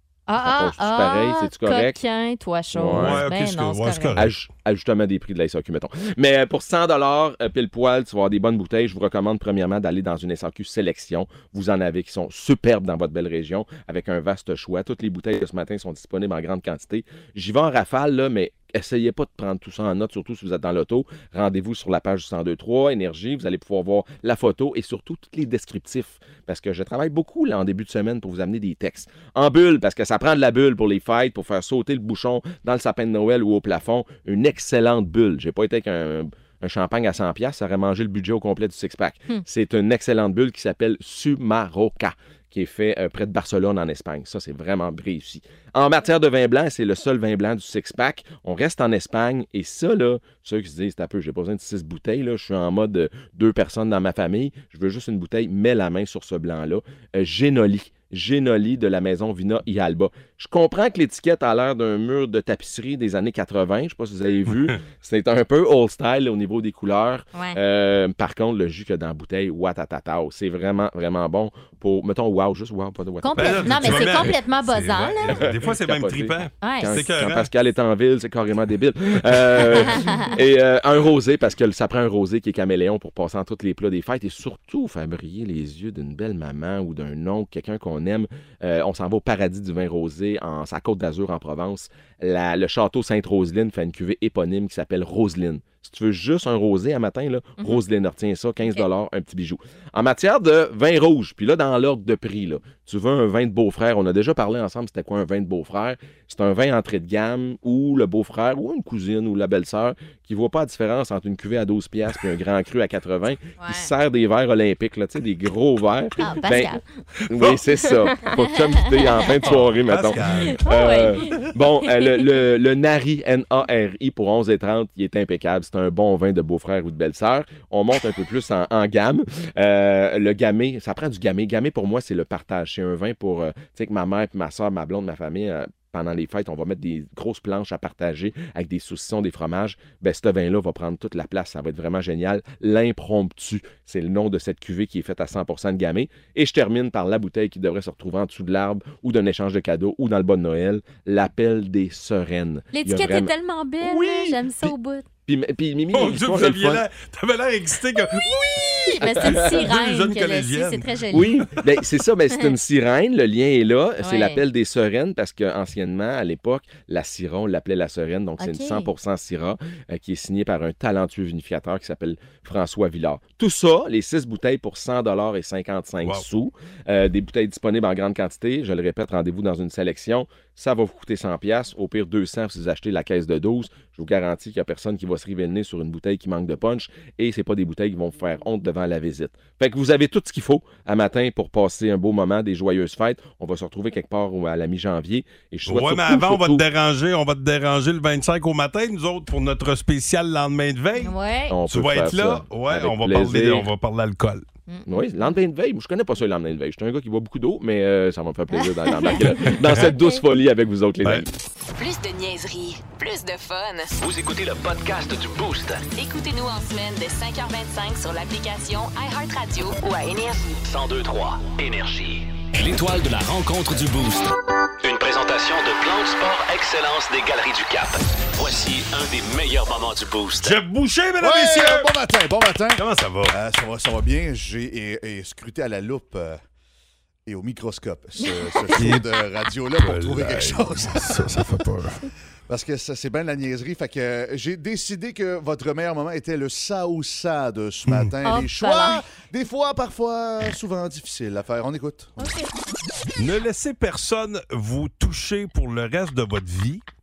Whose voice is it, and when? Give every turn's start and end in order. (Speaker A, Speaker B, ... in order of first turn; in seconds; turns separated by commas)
Speaker A: 0.3-4.2, Speaker B: 0.4-2.0, Speaker B: 2.7-3.2, Speaker C: 2.9-4.3, Speaker B: 4.2-74.3, Speaker C: 64.5-64.8, Speaker A: 67.3-67.6, Speaker A: 73.2-75.4, Speaker C: 73.3-77.5, Speaker B: 75.3-153.3, Speaker A: 76.6-76.9, Speaker A: 79.9-80.2, Speaker A: 98.6-98.8, Speaker A: 113.6-113.9, Speaker A: 116.2-116.8, Speaker C: 117.3-117.6, Speaker A: 118.3-119.5, Speaker C: 119.3-121.5, Speaker A: 120.1-122.2, Speaker A: 152.7-155.1, Speaker C: 153.8-154.3, Speaker B: 155.2-156.8, Speaker C: 155.9-161.6, Speaker A: 158.8-161.4, Speaker B: 159.0-159.6, Speaker B: 161.1-196.6, Speaker A: 164.0-164.4, Speaker A: 168.4-168.9, Speaker C: 176.0-176.3, Speaker C: 195.7-201.1, Speaker A: 201.0-201.6, Speaker B: 201.5-203.7, Speaker C: 201.7-204.4, Speaker A: 204.7-205.3, Speaker B: 204.9-211.3, Speaker A: 208.5-209.3, Speaker C: 209.5-209.9, Speaker D: 211.8-213.9, Speaker E: 214.0-215.8, Speaker D: 215.9-220.6, Speaker E: 220.7-230.6, Speaker C: 230.4-231.9, Speaker F: 231.2-236.4, Speaker C: 232.7-233.4, Speaker F: 237.2-241.4, Speaker A: 238.2-238.9, Speaker C: 238.8-239.1, Speaker C: 239.7-242.1, Speaker F: 242.5-252.2, Speaker C: 247.8-248.2, Speaker A: 248.2-249.1, Speaker C: 253.2-256.8